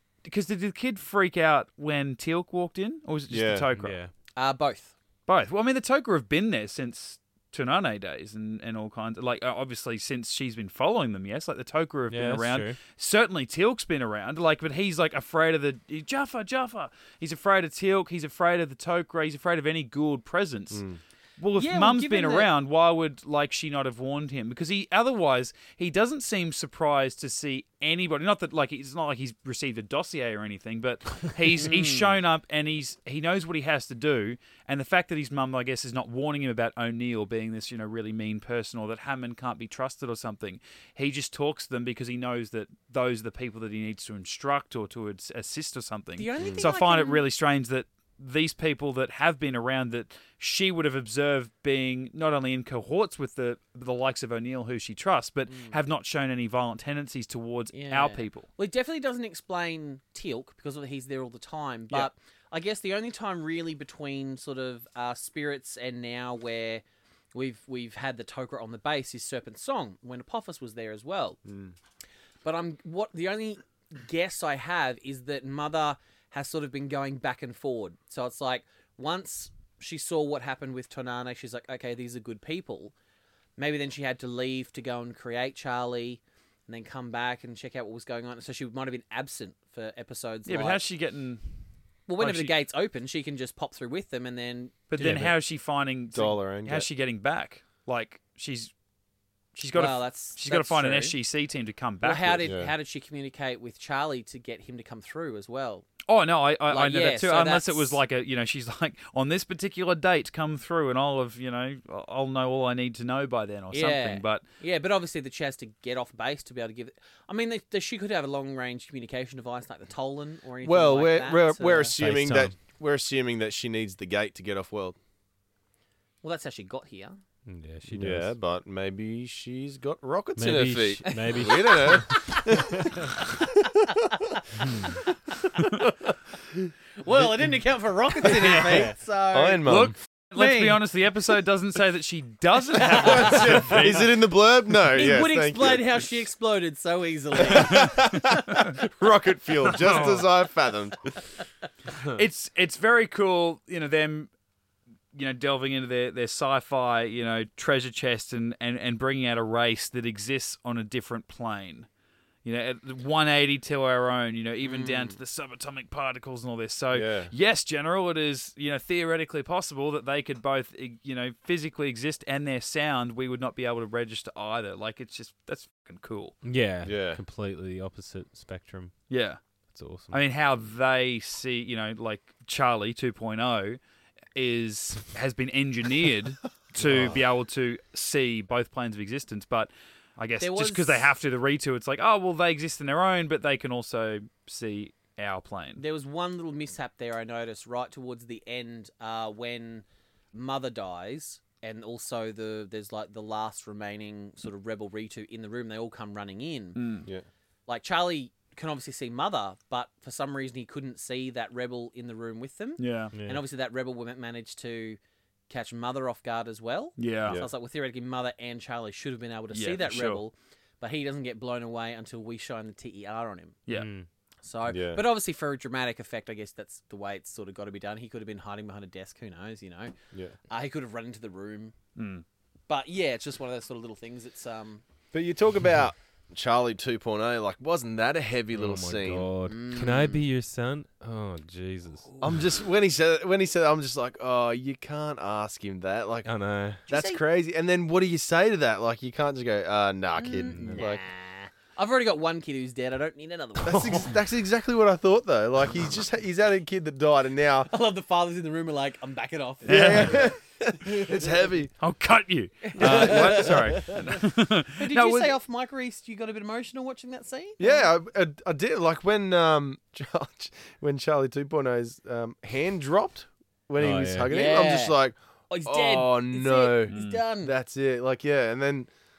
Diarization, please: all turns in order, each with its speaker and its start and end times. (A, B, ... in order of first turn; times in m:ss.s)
0:00.2-0:04.0 A
0:03.3-0:03.7 B
0:03.7-0:04.1 C
0:04.4-0:04.9 D
0:05.3-0:20.8 A
0:12.1-0:12.8 C
0:20.7-0:21.0 B
0:21.4-0:58.5 A
0:21.5-0:22.5 D
0:31.6-0:32.2 D
0:46.2-0:47.2 D
0:55.5-0:55.8 D
0:57.7-1:11.4 D
1:11.5-1:11.8 B
1:12.4-1:22.9 D
1:23.6-1:30.8 D
1:30.4-1:31.4 A
1:32.1-1:35.2 D
1:32.2-1:32.5 A
1:34.9-1:38.7 A
1:35.0-1:35.3 C
1:36.1-1:36.9 B
1:39.6-1:42.4 A
1:39.7-1:41.2 D
1:42.0-1:45.9 D
1:42.4-1:42.7 B
1:46.1-1:54.4 A
1:46.7-1:48.0 D
1:53.7-2:01.9 D
2:00.6-2:05.0 B
2:02.0-2:02.6 C
2:06.2-2:07.2 D
2:07.4-2:08.3 C
2:07.9-2:13.2 B
2:10.4-2:12.2 C
2:11.2-2:12.9 D
2:13.6-2:14.4 D
2:14.6-2:14.9 C
2:15.3-2:15.6 D
2:17.0-2:19.7 D
2:19.3-2:19.9 B
2:19.6-2:24.2 A
2:20.3-2:20.8 D
2:22.8-2:23.6 D
2:23.0-2:26.0 B
2:24.9-2:28.0 D
2:27.4-2:31.2 B
2:27.5-2:28.8 A
2:29.6-2:30.3 A
2:31.2-2:31.4 D
2:32.1-2:34.3 A
2:35.1-2:41.9 A
2:42.4-2:56.4 A
2:44.6-2:45.2 D
2:46.9-2:47.3 B
2:56.4-2:58.9 C
2:56.8-2:57.2 B
2:59.1-2:59.4 A
2:59.7-3:00.2 C
3:00.1-3:03.8 A
3:04.3-3:15.8 A
3:06.8-3:07.1 B
3:10.4-3:11.1 D
3:15.8-3:26.8 D
3:26.8-3:27.1 A
3:27.7-3:43.6 D
3:32.8-3:33.1 A
3:33.1-3:33.4 C
3:37.0-3:37.4 A
3:39.5-3:40.2 A
3:43.7-3:44.1 C
3:44.4-3:49.9 D
3:44.7-3:45.0 B
3:50.5-3:51.7 D
3:52.0-3:52.2 A
3:52.7-3:54.8 D
3:55.1-3:59.3 B
3:58.5-4:02.1 C
3:59.4-4:00.2 D
4:02.2-4:06.3 B
4:06.2-4:06.8 C
4:06.9-4:07.2 D
4:06.9-4:11.0 B
4:10.2-4:14.2 D
4:10.6-4:11.0 C
4:13.6-4:17.7 B
4:17.7-4:21.2 D
4:19.6-4:21.7 B
4:19.7-4:20.3 A
4:21.8-4:25.3 A
4:22.6-4:24.1 D
4:22.8-4:23.9 B
4:24.8-4:27.9 D
4:27.6-4:38.9 B
4:33.8-4:34.3 C
4:34.3-4:35.0 D
4:35.5-4:37.5 D
4:36.9-4:37.2 A